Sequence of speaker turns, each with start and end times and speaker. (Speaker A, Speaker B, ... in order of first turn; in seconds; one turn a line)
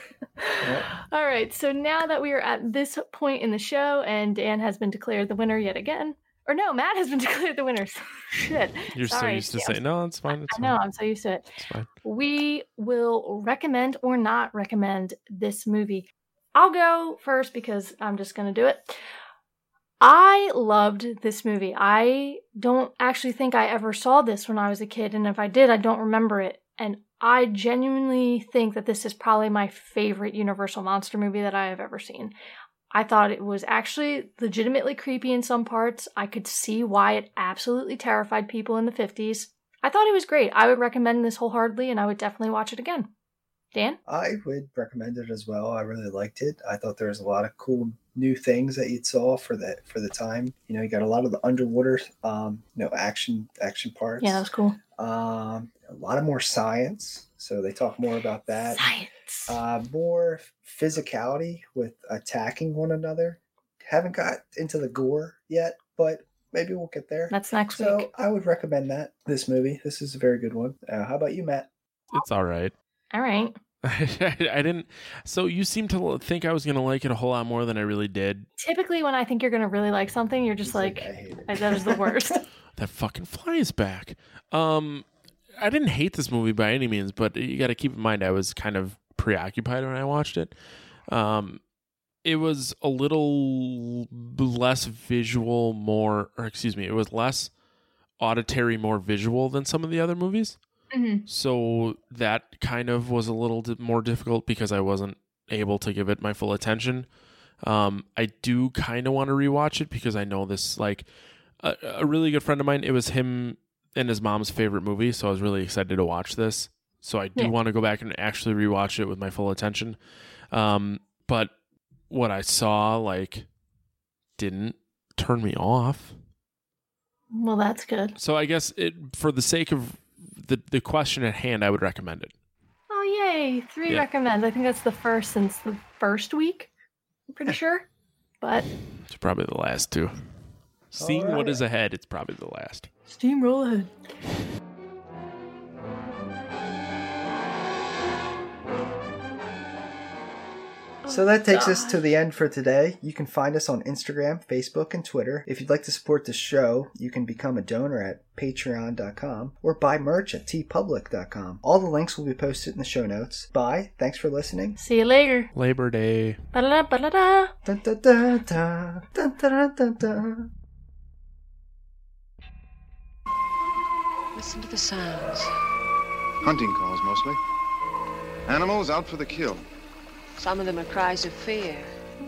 Speaker A: 0.4-9.8
Speaker B: 0.6-0.9
Speaker C: 8.9-10.8
Speaker A: 10.4-11.4
Speaker C: 11.6-11.9
Speaker A: 12.0-18.9
Speaker A: 20.0-32.3
Speaker A: 32.9-43.1
Speaker A: 43.7-44.0
Speaker B: 44.0-54.4
Speaker A: 54.2-54.8
Speaker B: 55.0-58.9
Speaker A: 58.6-59.6
Speaker B: 59.5-71.7
Speaker A: 67.3-68.1
Speaker C: 72.1-72.7
Speaker A: 73.1-73.5
Speaker C: 73.8-78.5
Speaker A: 78.6-82.4
Speaker B: 80.6-82.4
Speaker C: 82.8-85.0
Speaker C: 85.6-90.5
Speaker C: 91.1-91.6
Speaker C: 92.2-97.5
Speaker C: 98.2-100.6
Speaker A: 100.9-101.2
Speaker C: 101.3-107.1
Speaker C: 107.6-111.0
Speaker C: 111.6-120.0
Speaker C: 120.5-121.5
Speaker C: 122.1-123.5
Speaker C: 124.4-126.1
Speaker A: 127.3-128.1
Speaker C: 128.2-132.3
Speaker A: 132.9-136.7
Speaker A: 137.3-137.9
Speaker A: 138.4-138.7
Speaker C: 139.1-140.1
Speaker C: 140.9-142.9
Speaker B: 141.0-141.6
Speaker A: 143.1-143.9
Speaker A: 151.0-152.0
Speaker B: 151.1-164.8
Speaker A: 164.8-165.5
Speaker C: 165.5-166.4
Speaker A: 166.5-167.5
Speaker B: 167.6-170.5
Speaker D: 174.3-175.5
Speaker E: 176.4-177.4
Speaker E: 178.5-179.7
Speaker D: 180.4-181.9